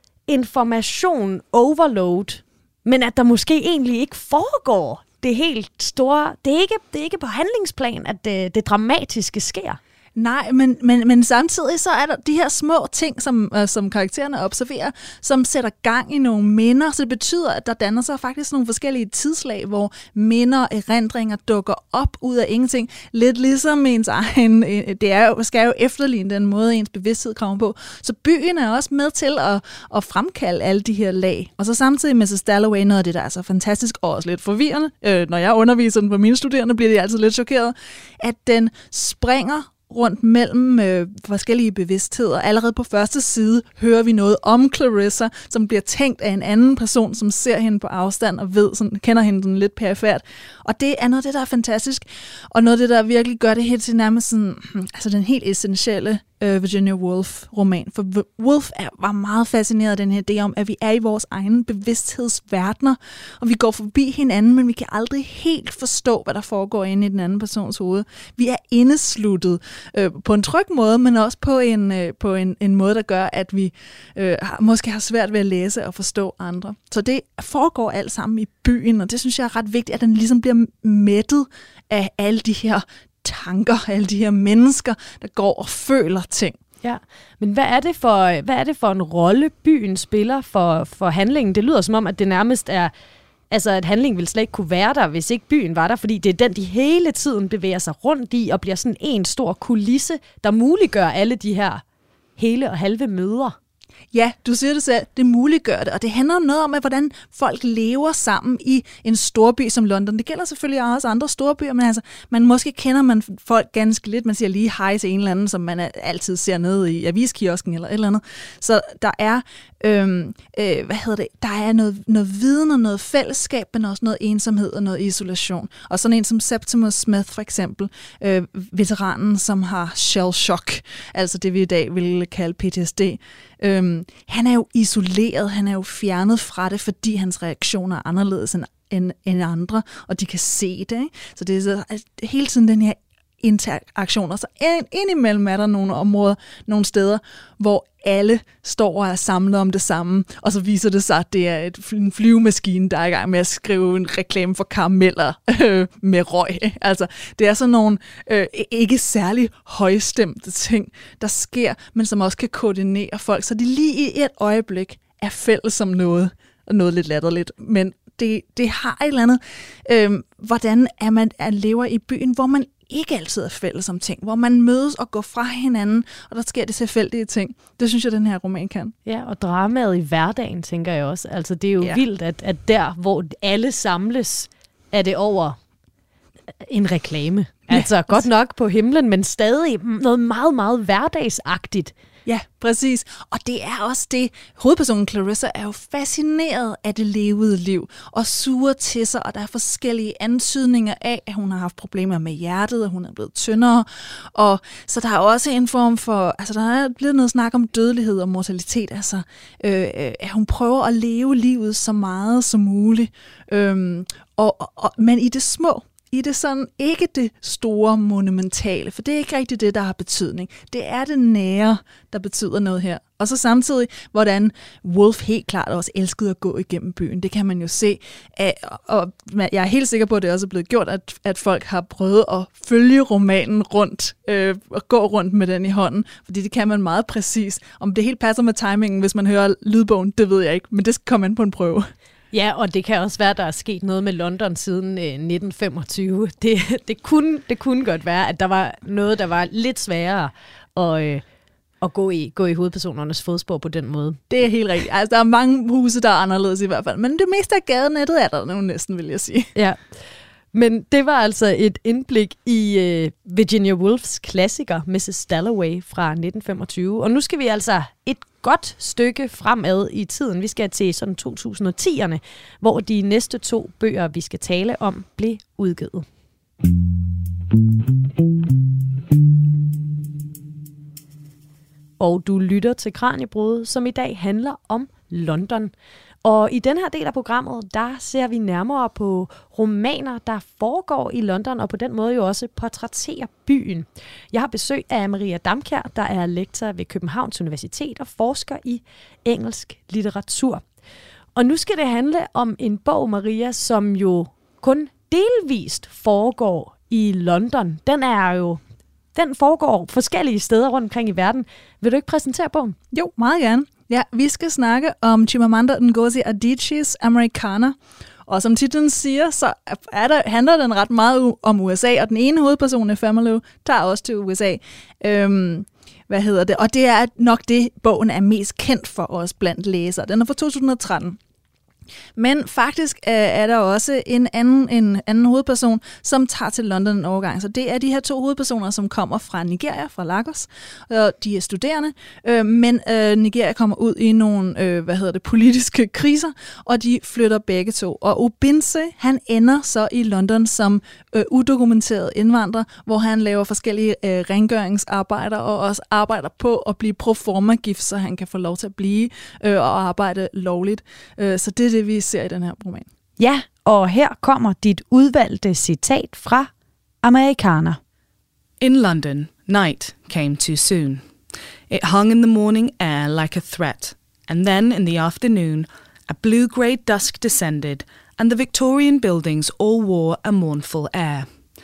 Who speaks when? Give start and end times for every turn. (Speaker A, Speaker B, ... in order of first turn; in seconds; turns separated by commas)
Speaker A: 0.3-9.8, Speaker B: 10.2-86.6, Speaker A: 86.8-92.9, Speaker A: 93.5-101.8, Speaker A: 102.4-103.5, Speaker B: 104.1-178.9, Speaker A: 179.1-185.6, Speaker A: 186.6-191.9, Speaker B: 187.7-188.2, Speaker B: 192.2-241.9, Speaker A: 242.3-251.2, Speaker A: 251.8-254.2, Speaker B: 254.3-259.5, Speaker A: 259.5-259.9, Speaker A: 260.5-276.1, Speaker A: 282.0-285.7, Speaker A: 286.2-300.6, Speaker A: 301.3-308.6, Speaker A: 309.1-312.8, Speaker B: 312.9-331.2, Speaker B: 332.1-362.9, Speaker A: 363.2-363.6, Speaker C: 363.5-366.4, Speaker A: 365.3-365.8, Speaker C: 367.1-367.7, Speaker D: 368.6-371.0, Speaker D: 371.7-381.3